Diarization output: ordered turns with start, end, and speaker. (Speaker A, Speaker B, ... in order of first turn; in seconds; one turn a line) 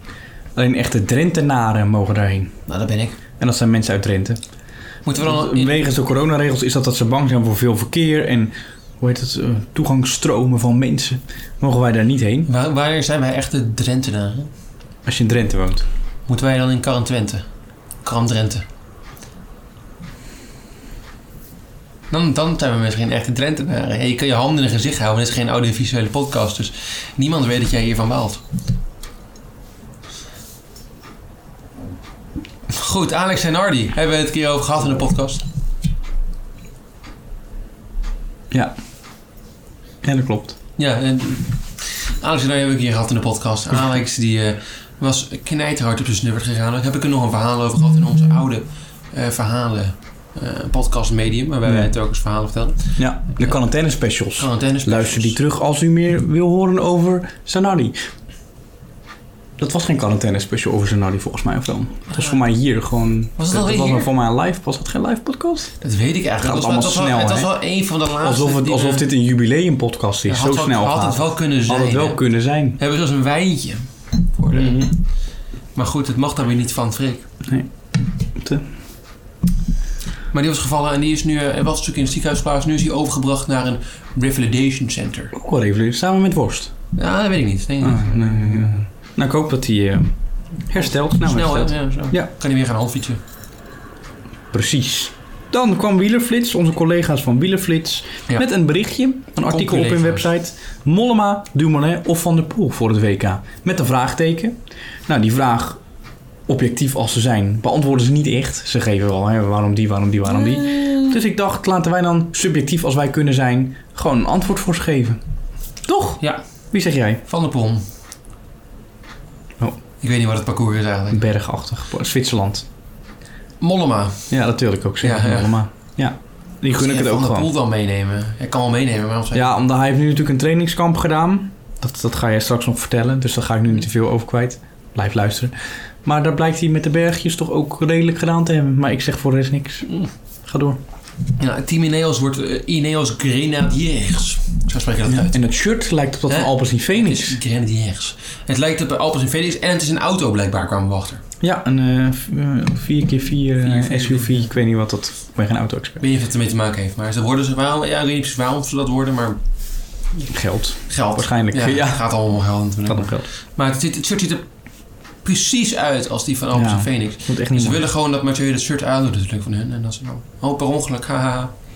Speaker A: 0.6-2.6
Speaker B: 2.7-3.2
Speaker A: 3.4-4.4
Speaker B: 5.1-5.9
Speaker A: 5.2-12.5
Speaker B: 12.5-14.5
Speaker A: 15.1-15.9
Speaker B: 16.3-17.5
Speaker B: 18.0-18.7
Speaker B: 22.1-28.4
Speaker B: 32.7-35.4
Speaker A: 40.0-40.6
Speaker B: 40.8-53.6
Speaker A: 51.7-51.9
Speaker A: 53.0-58.0
Speaker B: 54.4-55.4
Speaker A: 59.6-65.7
Speaker B: 62.1-62.4
Speaker B: 63.4-64.1
Speaker B: 65.8-69.1
Speaker A: 66.4-67.5
Speaker A: 68.2-72.8
Speaker B: 70.3-72.2
Speaker B: 72.8-75.1
Speaker A: 74.5-75.0
Speaker B: 75.8-77.3
Speaker A: 77.5-78.7
Speaker B: 80.3-85.3
Speaker A: 85.3-86.7
Speaker B: 87.0-88.8
Speaker A: 87.8-90.1
Speaker A: 90.7-92.3
Speaker B: 90.8-93.2
Speaker A: 94.5-105.8
Speaker B: 99.4-100.2
Speaker A: 106.5-115.2
Speaker B: 110.3-111.1
Speaker A: 115.8-117.2
Speaker B: 117.3-117.8
Speaker B: 120.0-121.2
Speaker A: 121.1-122.7
Speaker B: 123.6-124.3
Speaker A: 124.3-127.5
Speaker B: 125.0-125.6
Speaker B: 126.8-129.6
Speaker A: 129.3-139.9
Speaker A: 140.5-140.8
Speaker B: 141.4-145.4
Speaker A: 145.1-147.4
Speaker B: 146.3-151.2
Speaker A: 151.4-156.0
Speaker B: 153.6-154.5
Speaker B: 156.0-159.4
Speaker A: 160.3-162.1
Speaker B: 160.9-164.5
Speaker A: 162.9-163.3
Speaker B: 165.2-171.5
Speaker A: 166.5-167.8